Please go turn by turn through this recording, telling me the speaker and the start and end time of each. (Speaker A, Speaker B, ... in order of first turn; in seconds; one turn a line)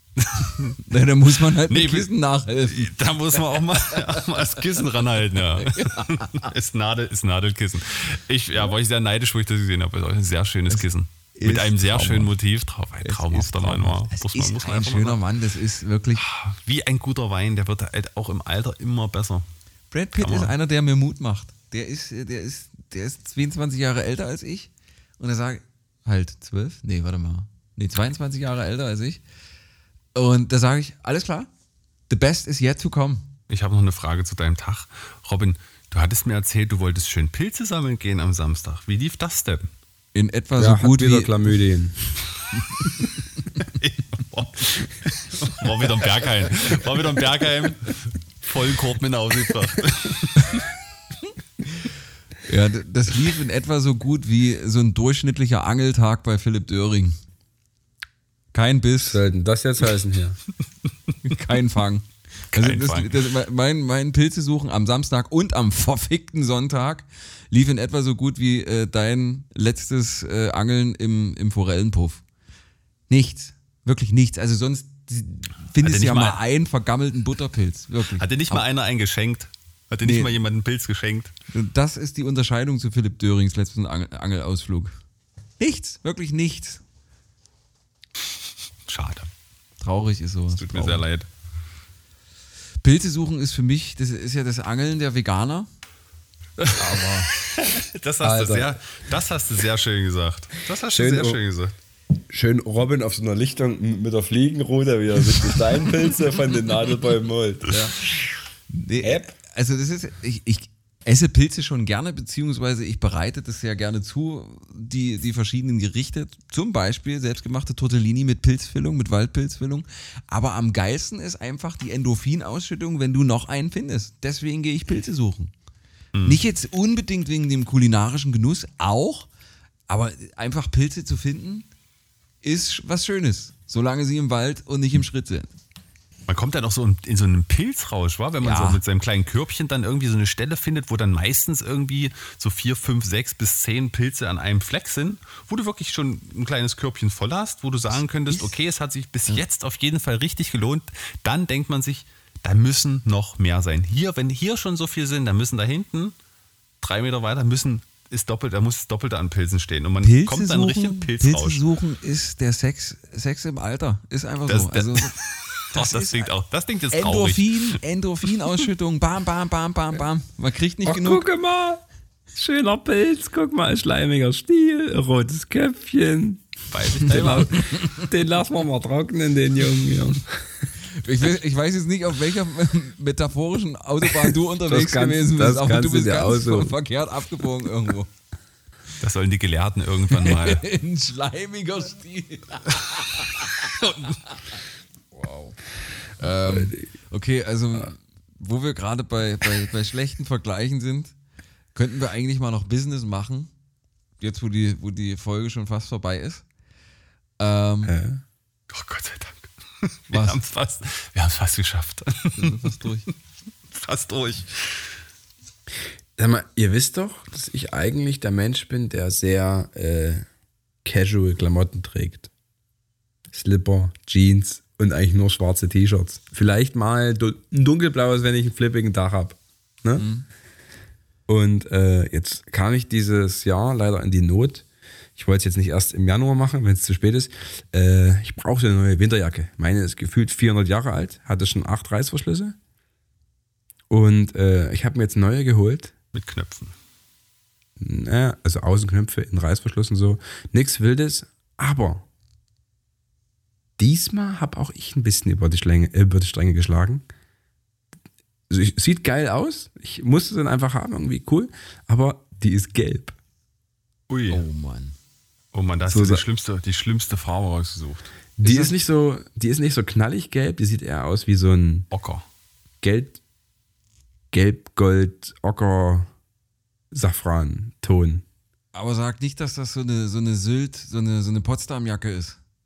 Speaker A: 0.2-0.8
Speaker B: 0.8-2.9
Speaker A: 1.7-2.1
Speaker A: 2.7-15.2
Speaker B: 3.9-4.2
Speaker B: 5.5-6.5
Speaker B: 11.3-12.3
Speaker B: 13.0-16.2
Speaker A: 16.2-19.4
Speaker B: 19.9-29.2
Speaker A: 20.2-20.5
Speaker B: 30.1-31.5
Speaker B: 32.1-33.3
Speaker A: 33.5-39.7
Speaker B: 40.1-41.5
Speaker C: 40.6-42.2
Speaker A: 43.8-50.4
Speaker B: 52.5-57.2
Speaker B: 58.5-59.2
Speaker C: 59.1-60.4
Speaker B: 61.2-72.2
Speaker A: 62.5-63.2
Speaker B: 73.1-78.6
Speaker A: 75.8-76.4
Speaker A: 78.2-81.3
Speaker B: 80.0-80.3
Speaker B: 81.5-85.0
Speaker B: 85.6-86.8
Speaker A: 88.9-89.3
Speaker B: 89.8-91.0
Speaker A: 90.5-91.3
Speaker B: 92.8-95.7
Speaker B: 96.7-97.3
Speaker A: 97.6-101.7
Speaker C: 98.2-98.8
Speaker C: 100.9-101.4
Speaker C: 102.3-107.7
Speaker B: 107.7-108.0
Speaker B: 108.7-125.5
Speaker C: 109.0-109.3
Speaker A: 126.1-126.4
Speaker B: 126.2-129.3
Speaker B: 129.9-131.7
Speaker B: 132.4-135.5
Speaker A: 136.3-156.1
Speaker B: 138.4-138.8
Speaker A: 156.8-161.6
Speaker B: 160.0-165.2
Speaker A: 164.5-167.8
Speaker B: 165.7-166.3
Speaker B: 166.9-171.2
Speaker C: 170.8-171.8
Speaker C: 172.3-176.4
Speaker A: 176.7-177.5
Speaker C: 177.1-180.4
Speaker B: 177.1-178.1
Speaker B: 180.9-188.1
Speaker C: 184.1-186.7
Speaker A: 189.0-190.6
Speaker B: 190.1-194.6
Speaker B: 195.1-195.6
Speaker B: 196.2-201.1
Speaker C: 196.4-196.8
Speaker B: 201.7-203.5
Speaker B: 204.2-206.4
Speaker B: 207.4-207.9
Speaker C: 207.8-208.2
Speaker A: 208.7-212.7
Speaker B: 210.1-210.4
Speaker B: 212.4-213.1
Speaker A: 213.7-214.9
Speaker C: 216.2-220.2
Speaker C: 220.8-222.3
Speaker C: 223.3-230.0
Speaker B: 230.0-230.2
Speaker C: 231.3-234.6
Speaker C: 235.2-242.6
Speaker C: 243.9-245.9
Speaker A: 246.1-246.7
Speaker C: 247.8-252.1
Speaker C: 253.8-257.1
Speaker C: 258.5-263.1
Speaker A: 264.1-264.4
Speaker B: 264.3-264.9
Speaker A: 265.5-268.1
Speaker C: 265.8-266.2
Speaker C: 268.4-271.9
Speaker B: 268.4-268.7
Speaker A: 271.9-272.2
Speaker C: 272.8-273.2
Speaker C: 274.3-276.1
Speaker C: 276.9-278.2
Speaker B: 278.7-282.4